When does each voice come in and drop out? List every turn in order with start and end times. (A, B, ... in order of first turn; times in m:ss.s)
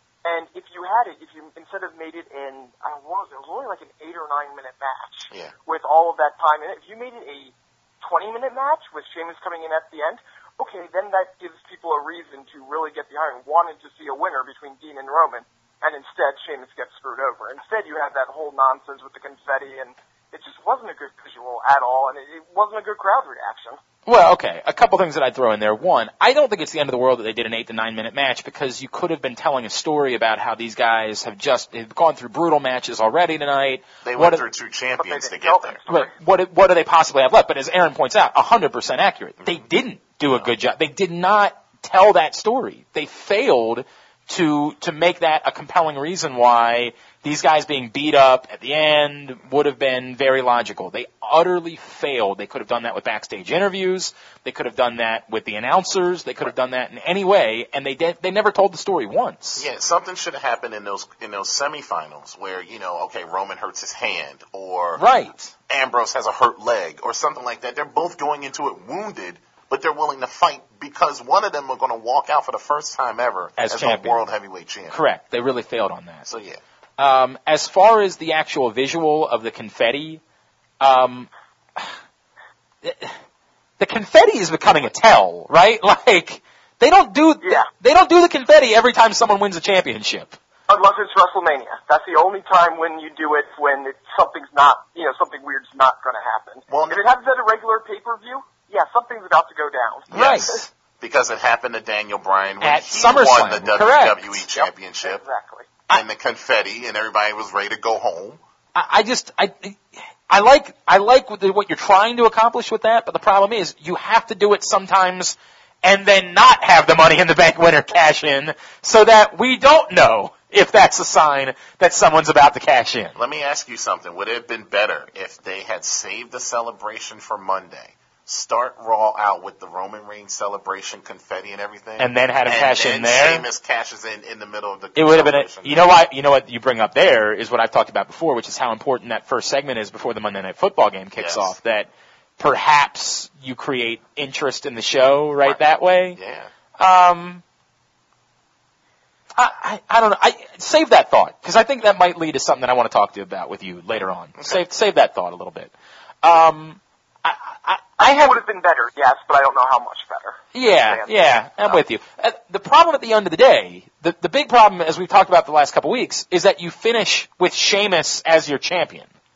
0:00.2-0:23.8 A
0:24.0-0:34.4 B
0:34.0-0:35.8 C
0:35.0-0:36.1 A
0:35.9-0:59.6 B
0:59.6-1:05.0 C
1:05.0-1:05.5 B
1:05.7-1:15.0 C
1:13.6-1:14.3 B
1:14.9-1:16.3 B
1:16.2-1:16.6 C
1:17.0-1:20.2 B
1:20.8-1:21.9 B
1:22.8-1:23.1 B
1:23.8-1:30.4 B
1:27.4-1:27.7 A
1:30.7-1:40.6 A
1:36.7-1:37.0 C
1:40.1-1:45.2 C
1:40.1-1:40.7 B
1:42.6-1:44.4 B
1:44.5-1:45.7 A
1:45.9-1:48.4 C
1:48.8-2:03.1 B
2:03.1-2:15.9 C
2:12.0-2:13.4 B
2:15.0-2:26.2 B
2:21.2-2:21.6 C
2:26.1-2:26.5 C
2:26.8-2:27.4 B
2:29.4-2:38.4 B
2:38.0-2:41.1 A
2:40.5-2:49.1 B